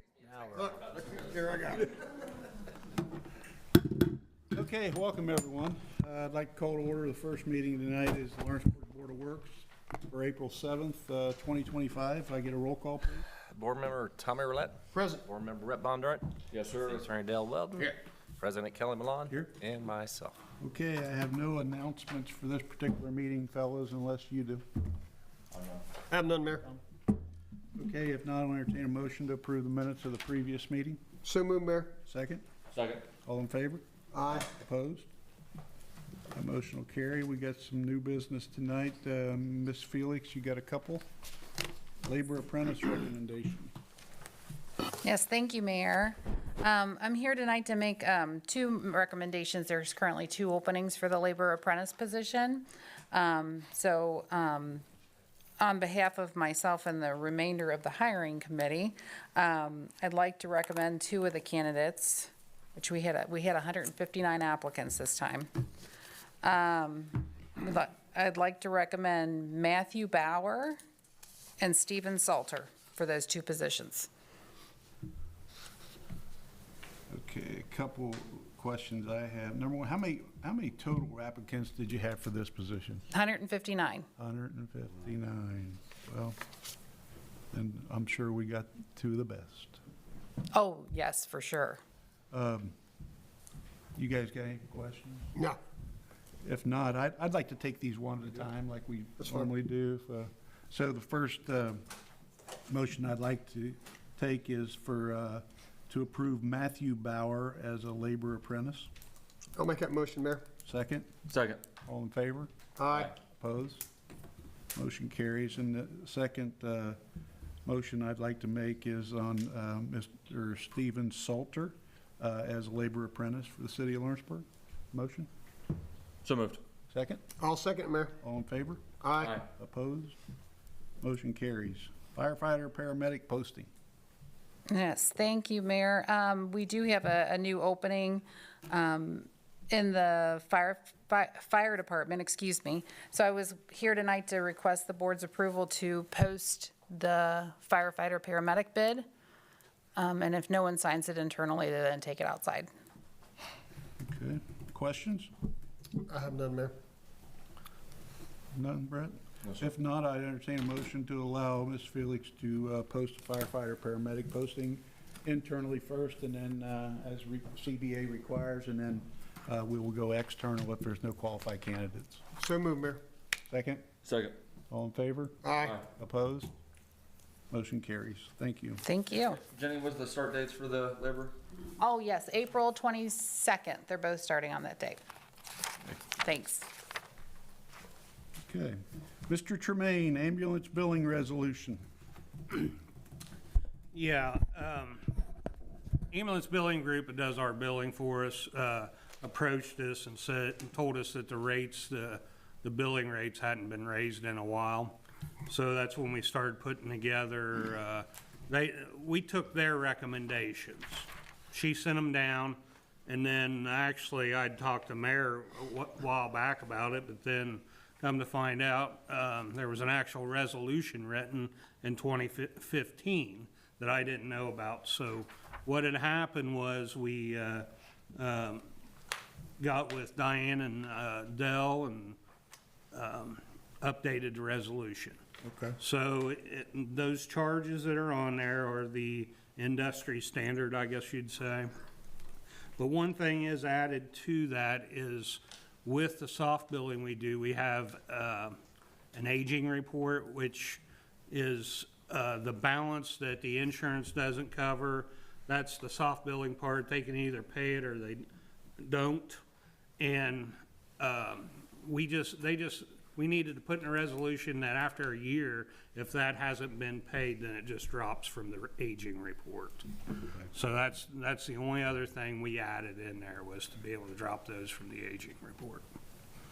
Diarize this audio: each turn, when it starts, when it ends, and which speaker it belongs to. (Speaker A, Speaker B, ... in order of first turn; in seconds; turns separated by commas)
Speaker A: 0.5-2.1, Speaker B: 4.5-13.3, Speaker C: 13.5-16.3, Speaker A: 14.9-15.2, Speaker D: 16.5-17.1, Speaker C: 16.9-20.3, Speaker B: 19.3-19.5, Speaker B: 20.6-24.6, Speaker D: 25.5-25.8, Speaker A: 26.1-26.7, Speaker B: 27.7-31.0, Speaker A: 31.2-31.9, Speaker B: 32.0-32.4, Speaker D: 32.7-33.0, Speaker B: 33.2-33.8, Speaker A: 34.1-34.5, Speaker B: 34.4-35.1, Speaker B: 36.3-41.0, Speaker B: 42.0-43.7, Speaker E: 45.0-54.8, Speaker E: 55.6-65.5, Speaker E: 66.4-70.8, Speaker E: 71.6-74.1, Speaker B: 77.1-83.0, Speaker E: 83.1-84.1, Speaker B: 84.2-86.4, Speaker B: 87.5-89.8, Speaker E: 90.5-91.8, Speaker B: 92.3-92.7, Speaker B: 94.0-95.3, Speaker B: 96.4-101.8, Speaker B: 102.7-108.9, Speaker A: 109.5-110.4, Speaker B: 110.6-111.1, Speaker D: 111.3-111.6, Speaker B: 111.8-112.5, Speaker A: 112.8-113.1, Speaker B: 113.2-113.8, Speaker B: 114.7-117.0, Speaker B: 117.6-125.3, Speaker D: 126.2-126.6, Speaker B: 126.9-127.2, Speaker A: 127.4-128.1, Speaker B: 128.2-128.8, Speaker A: 129.0-129.4, Speaker B: 129.5-130.2, Speaker B: 131.0-133.7, Speaker E: 134.7-149.1, Speaker E: 149.9-152.7, Speaker B: 154.0-155.3, Speaker A: 156.1-156.7, Speaker B: 158.5-172.2, Speaker A: 172.4-173.0, Speaker B: 173.5-173.8, Speaker D: 174.0-174.3, Speaker B: 174.7-176.5, Speaker A: 175.4-175.8, Speaker B: 177.5-178.8, Speaker E: 178.8-179.4, Speaker D: 179.4-181.3, Speaker E: 181.8-185.0, Speaker E: 186.2-186.7, Speaker B: 188.4-191.8, Speaker F: 193.9-195.2, Speaker F: 196.1-228.7, Speaker F: 229.6-232.2, Speaker F: 232.9-235.2, Speaker B: 235.4-235.8, Speaker F: 235.8-241.7, Speaker F: 242.8-248.5, Speaker F: 249.1-258.2, Speaker F: 258.8-259.4, Speaker F: 260.0-269.9, Speaker F: 270.5-275.9